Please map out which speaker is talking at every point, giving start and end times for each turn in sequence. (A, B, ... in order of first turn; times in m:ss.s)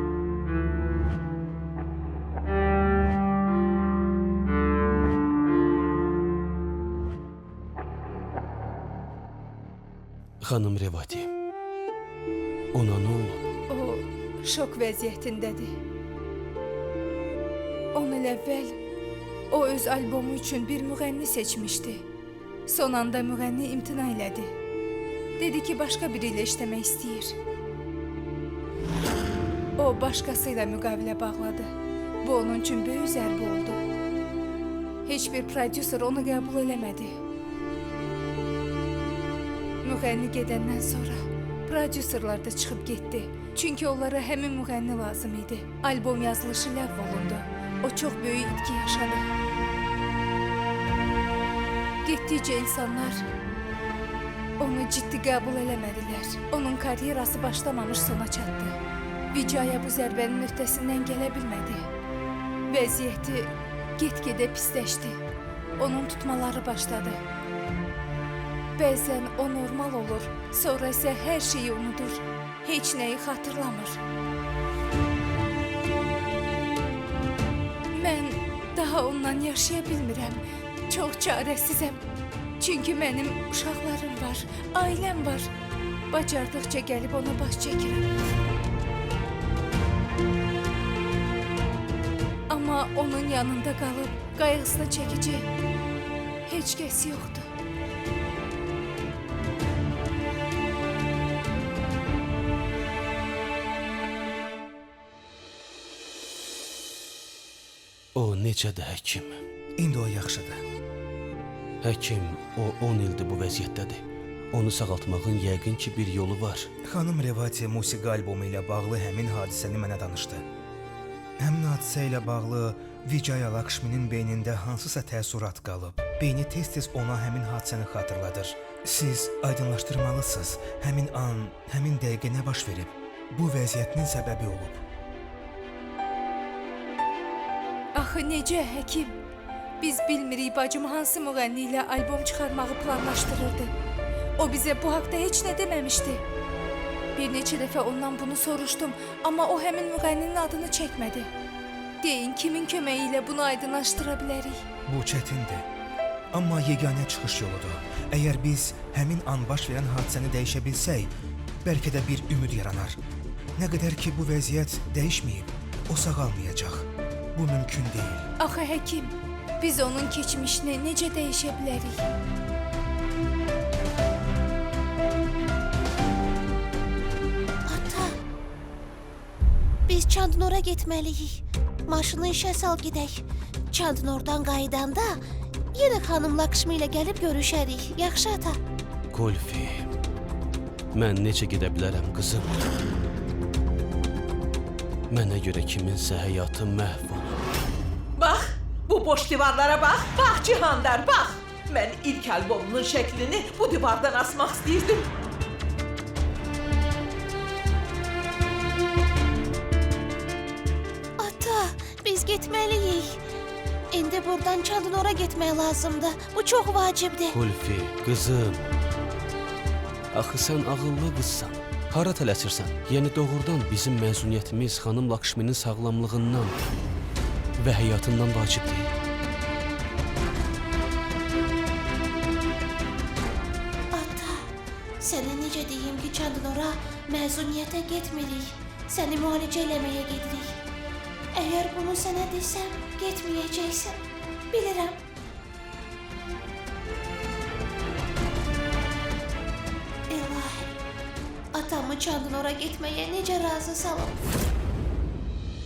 0:10.4-0:11.3 A
0:12.7-0:13.4 A
0:13.7-0:15.8 B
0:17.9-0:18.8 B
0:19.5-0:22.0 B
0:22.7-0:24.5 B
0:25.4-0:27.3 B
0:29.8-0:31.7 B
0:32.2-0:33.8 B
0:35.0-0:37.2 B
0:39.8-0:49.2 B
0:52.0-0:53.2 B
0:54.6-0:58.7 B
0:59.3-1:01.8 B
1:02.7-1:05.2 B
1:05.8-1:07.2 B
1:08.8-1:14.0 B
1:17.9-1:22.0 B
1:22.6-1:25.5 B
1:26.1-1:28.0 B
1:32.5-1:35.4 B
1:36.5-1:37.5 B
1:48.2-1:49.4 A
1:49.8-1:50.6 C
1:51.8-1:56.7 A
1:56.8-2:00.4 C
2:01.4-2:14.8 C
2:17.9-2:19.2 B
2:19.8-2:23.7 B
2:24.4-2:26.2 B
2:27.2-2:31.3 B
2:32.0-2:34.6 B
2:34.9-2:35.6 C
2:36.3-2:41.1 C
2:41.6-2:43.0 C
2:43.6-2:48.3 C
2:48.4-2:52.0 B
2:57.7-2:58.1 D
2:59.9-3:05.2 D
3:05.7-3:08.6 D
3:09.1-3:09.9 A
3:10.9-3:12.6 A
3:15.1-3:17.3 A
3:18.2-3:25.1 E
3:31.2-3:33.2 D
3:33.9-3:37.4 D
3:37.3-3:38.7 A
3:40.1-3:46.5 A
3:47.6-3:48.9 A
3:53.9-3:54.4 D
3:55.0-4:00.6 D
4:01.4-4:04.0 D
4:04.5-4:05.0 D
4:10.1-4:10.7 D
4:11.5-4:14.2 D